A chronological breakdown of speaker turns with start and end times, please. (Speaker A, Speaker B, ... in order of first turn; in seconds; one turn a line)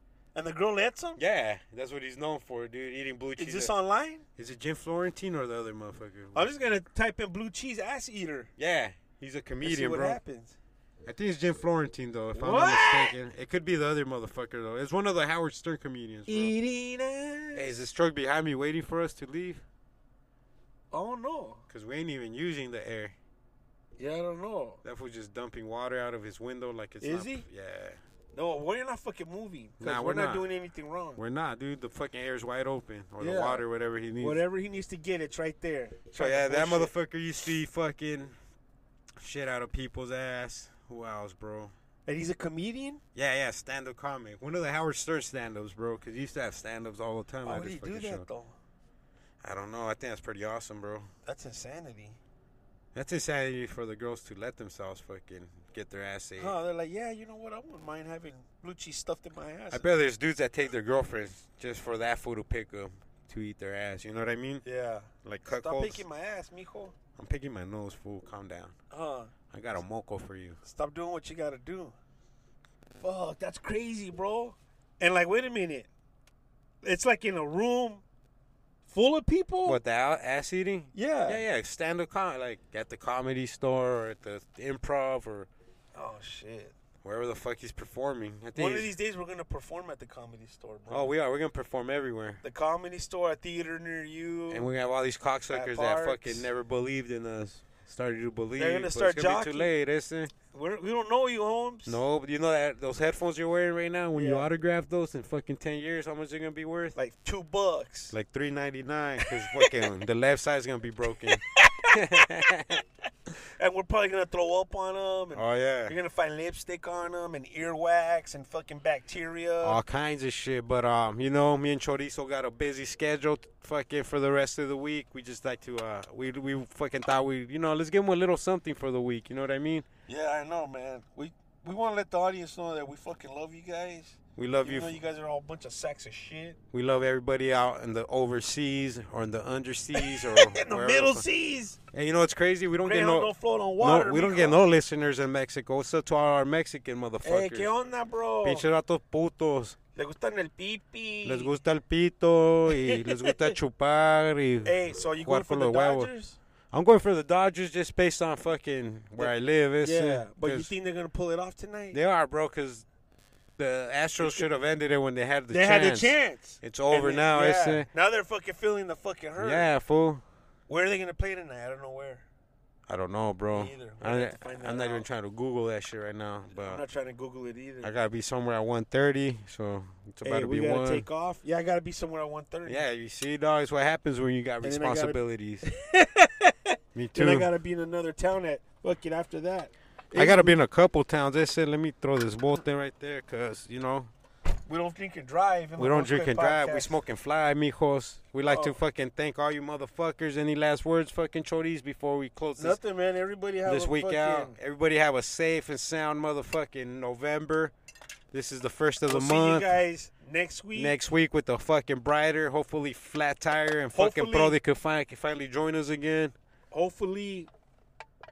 Speaker A: 0.3-1.2
Speaker B: 1.2-3.7
Speaker A: 3.4-4.2
Speaker B: 4.4-6.5
Speaker A: 6.3-8.5
Speaker B: 8.6-10.2
Speaker A: 9.6-10.6
Speaker B: 11.1-16.5
Speaker A: 12.3-13.1
Speaker A: 16.3-17.8
Speaker B: 17.6-19.6
Speaker A: 20.9-21.6
Speaker B: 21.7-23.1
Speaker A: 24.0-24.8
Speaker B: 24.8-28.0
Speaker A: 27.0-27.4
Speaker A: 28.3-31.2
Speaker B: 29.8-30.5
Speaker B: 31.2-34.4
Speaker A: 33.2-33.6
Speaker A: 34.2-36.9
Speaker B: 36.1-38.4
Speaker B: 39.2-41.7
Speaker A: 42.1-43.0
Speaker B: 43.1-48.3
Speaker A: 47.5-48.5
Speaker B: 49.4-51.1
Speaker A: 51.2-52.2
Speaker B: 52.9-56.5
Speaker A: 56.4-59.8
Speaker B: 59.7-64.6
Speaker A: 64.6-66.9
Speaker B: 65.2-66.0
Speaker B: 67.2-68.7
Speaker A: 68.9-69.3
Speaker B: 69.5-70.6
Speaker A: 70.6-71.9
Speaker A: 73.0-75.9
Speaker A: 76.8-78.0
Speaker A: 78.9-79.8
Speaker B: 79.7-85.5
Speaker A: 80.9-81.4
Speaker A: 85.9-86.7
Speaker B: 87.0-88.9
Speaker A: 88.5-91.1
Speaker B: 90.9-92.4
Speaker A: 92.4-94.7
Speaker B: 94.5-100.3
Speaker A: 95.5-96.5
Speaker A: 98.6-99.7
Speaker A: 100.5-102.0
Speaker B: 101.9-107.0
Speaker A: 104.1-104.5
Speaker A: 107.0-108.1
Speaker B: 108.1-112.8
Speaker A: 109.2-109.7
Speaker A: 111.5-112.4
Speaker A: 113.6-119.8
Speaker B: 115.3-116.0
Speaker B: 119.6-129.9
Speaker A: 130.1-136.6
Speaker B: 134.4-135.0
Speaker B: 136.7-141.2
Speaker A: 140.0-141.8
Speaker B: 141.9-147.7
Speaker A: 142.8-144.6
Speaker A: 147.2-148.7
Speaker B: 148.4-149.8
Speaker A: 150.0-151.6
Speaker B: 151.2-156.1
Speaker A: 152.7-153.6
Speaker A: 154.7-156.4
Speaker B: 156.7-160.7
Speaker A: 159.2-162.0
Speaker B: 161.9-162.8
Speaker B: 163.6-167.9
Speaker A: 164.2-164.5
Speaker A: 165.5-169.7
Speaker B: 169.4-170.2
Speaker A: 170.7-172.3
Speaker B: 172.9-176.8
Speaker A: 173.5-175.1
Speaker A: 176.5-177.9
Speaker B: 177.8-181.1
Speaker A: 180.2-182.8
Speaker B: 182.7-185.7
Speaker A: 184.6-190.6
Speaker B: 186.9-187.5
Speaker B: 190.2-194.1
Speaker A: 194.7-197.0
Speaker B: 195.8-202.8
Speaker A: 198.5-198.8
Speaker A: 202.6-204.6
Speaker B: 203.7-207.7
Speaker B: 208.3-209.7
Speaker A: 209.1-210.9
Speaker B: 210.8-216.3
Speaker A: 213.9-214.6
Speaker A: 216.7-217.5